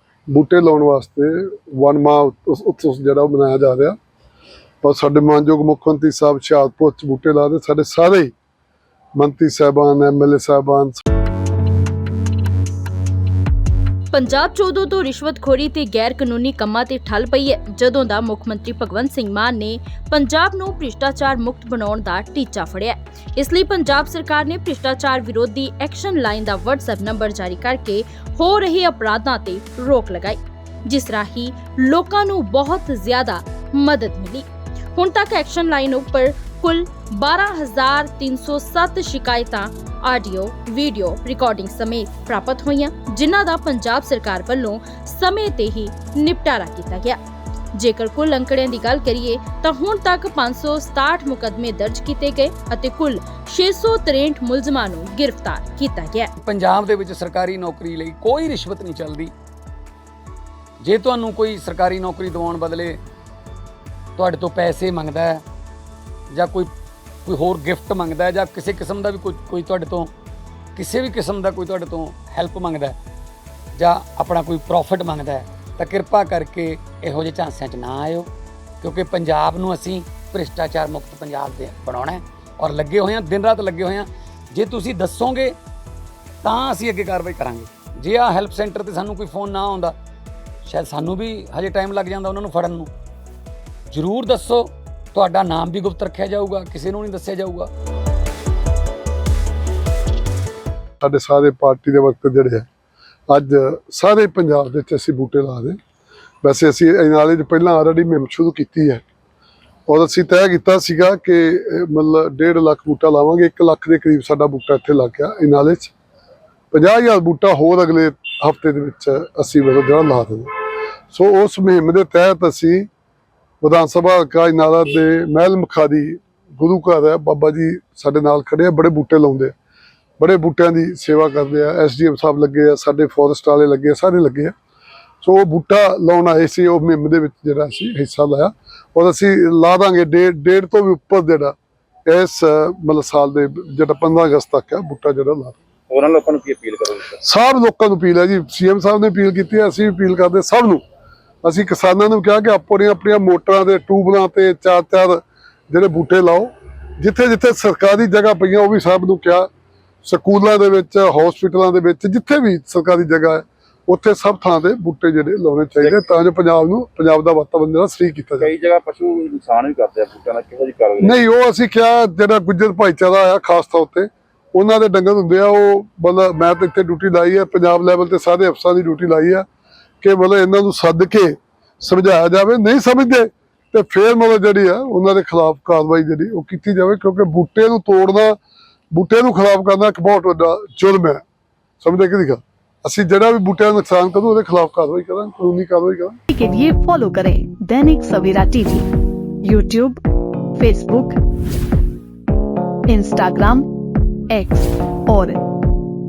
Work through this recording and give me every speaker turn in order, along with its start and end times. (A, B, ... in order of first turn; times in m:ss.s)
0:00.3-0:04.0 A
0:04.8-0:08.3 A
0:09.2-0:11.0 A
0:14.1-0:47.2 B
0:47.8-0:56.3 B
0:56.4-0:59.3 C
1:00.8-1:03.0 C
1:04.2-1:05.4 C
1:06.3-1:06.7 C
1:07.2-1:10.1 C
1:10.8-1:13.0 C
1:13.8-1:18.3 C
1:18.8-1:25.6 C
1:26.4-1:30.0 C
1:30.6-1:32.9 C
1:33.9-1:37.7 C
1:41.0-1:42.7 A
1:43.3-1:45.8 A
1:46.4-1:49.0 A
1:49.9-1:55.9 A
1:56.7-2:00.5 A
2:01.1-2:02.9 A
2:03.6-2:09.5 A
2:10.2-2:14.5 A
2:15.2-2:21.5 A
2:22.1-2:25.6 A
2:25.9-2:27.2 D
2:27.2-2:30.8 A
2:31.4-2:39.5 A
2:40.0-2:48.5 A
2:48.4-2:51.2 D
2:51.0-2:59.4 A
3:00.0-3:08.4 A
3:08.9-3:11.2 A
3:11.8-3:16.2 A
3:16.3-3:18.9 E
3:19.4-3:20.0 E
3:20.6-3:21.2 E
3:22.9-3:23.7 E
3:24.3-3:25.4 E